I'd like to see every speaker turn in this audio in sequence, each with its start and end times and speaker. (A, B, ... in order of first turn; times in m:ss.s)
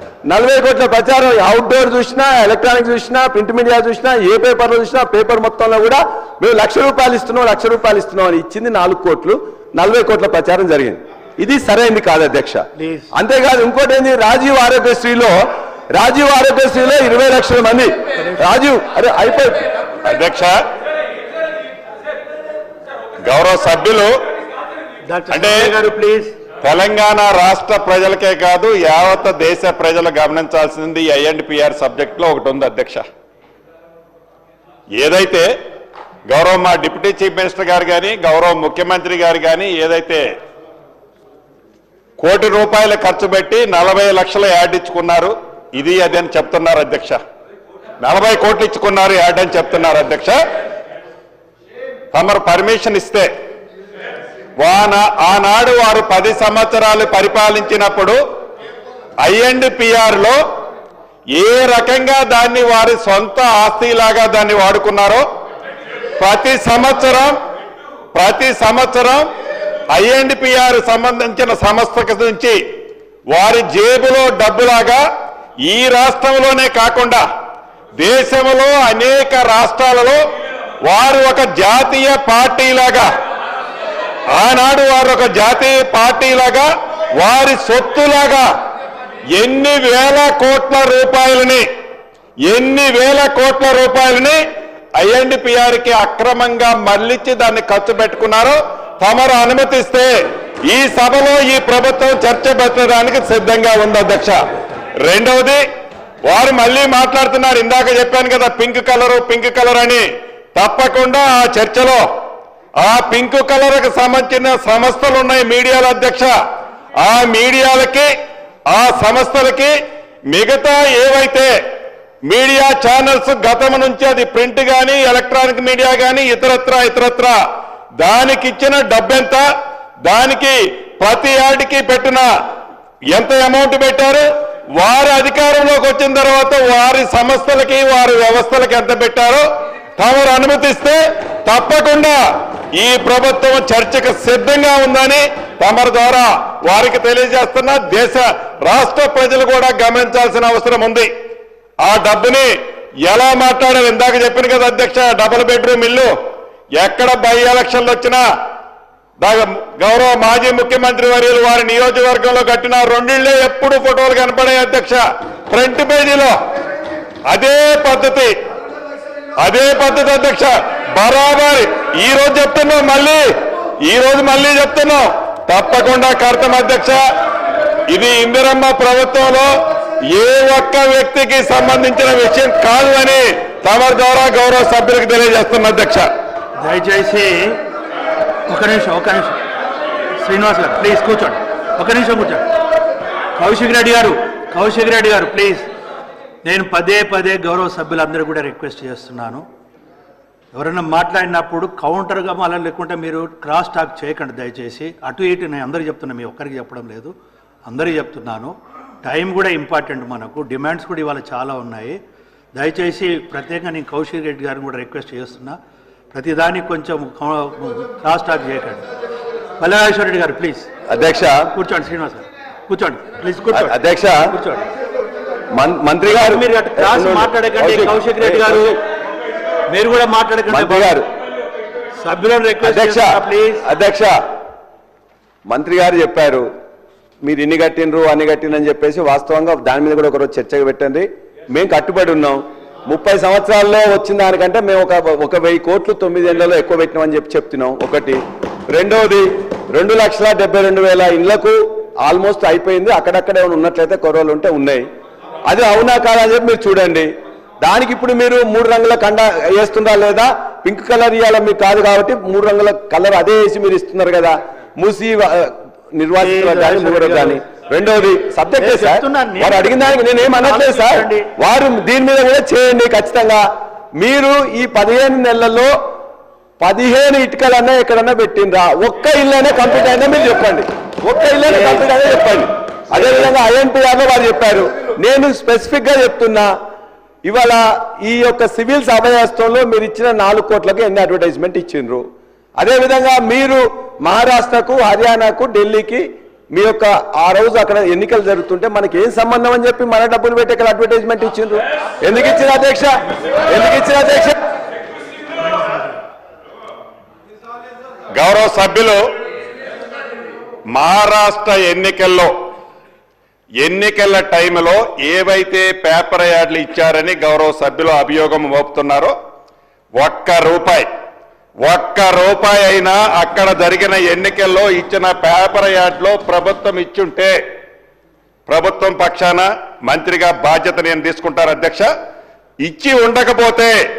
0:00.3-0:15.4 A
0:12.8-0:13.1 B
0:15.9-0:19.7 A
0:18.2-0:18.5 B
0:20.0-0:20.6 C
0:23.2-0:24.1 C
0:25.1-0:26.3 B
0:25.3-0:25.7 C
0:26.6-0:33.0 C
0:35.0-0:35.5 C
0:36.3-0:40.2 C
0:42.2-0:47.2 C
0:48.0-0:50.4 C
0:52.1-0:53.3 C
0:54.6-0:58.2 C
0:59.2-1:00.4 C
1:01.4-1:05.2 C
1:06.2-1:07.3 C
1:08.1-1:09.3 C
1:09.9-1:12.6 C
1:13.3-1:15.0 C
1:15.6-1:17.2 C
1:18.0-1:20.2 C
1:20.8-1:23.1 C
1:24.3-1:28.4 C
1:29.4-1:31.6 C
1:32.5-1:34.4 C
1:35.0-1:40.1 C
1:40.6-1:44.4 C
1:45.0-1:45.6 C
1:46.2-1:52.0 C
1:52.8-1:56.3 C
1:57.0-1:58.1 C
1:58.7-1:59.7 C
2:00.3-2:01.5 C
2:02.3-2:07.4 C
2:08.0-2:09.4 C
2:10.0-2:12.3 C
2:13.1-2:14.3 C
2:14.8-2:19.4 C
2:20.0-2:22.2 C
2:22.8-2:31.1 C
2:31.8-2:32.5 C
2:33.0-2:36.1 C
2:36.8-2:38.2 C
2:39.2-2:46.3 C
2:47.3-2:48.3 C
2:49.4-2:53.2 C
2:53.8-2:57.0 C
2:57.9-2:59.5 C
3:00.1-3:06.1 C
3:06.6-3:07.6 B
3:08.5-3:09.4 B
3:10.2-3:12.5 B
3:13.4-3:15.6 B
3:16.4-3:19.4 B
3:20.5-3:27.1 B
3:27.7-3:32.0 B
3:32.5-3:35.6 B
3:36.1-3:38.8 B
3:39.6-3:40.7 B
3:40.9-3:41.5 A
3:41.5-3:44.6 B
3:43.5-3:44.3 A
3:45.5-3:48.7 A
3:46.1-3:48.8 B
3:49.7-3:51.0 B
3:50.5-3:51.0 A
3:52.0-3:53.6 B
3:52.6-3:54.1 A
3:55.5-3:56.4 A
3:57.2-4:14.8 A
4:15.5-4:17.1 A
4:17.6-4:33.4 A
4:26.2-4:27.4 B
4:28.6-4:31.3 B
4:34.0-4:35.7 A
4:36.6-4:46.5 A
4:47.2-4:52.0 A
4:52.6-5:02.9 A
5:03.5-5:04.4 A
5:08.2-5:09.0 C
5:10.7-5:12.3 C
5:13.6-5:19.2 C
5:20.0-5:20.9 C
5:21.6-5:27.4 C
5:28.5-5:31.9 C
5:32.6-5:33.8 C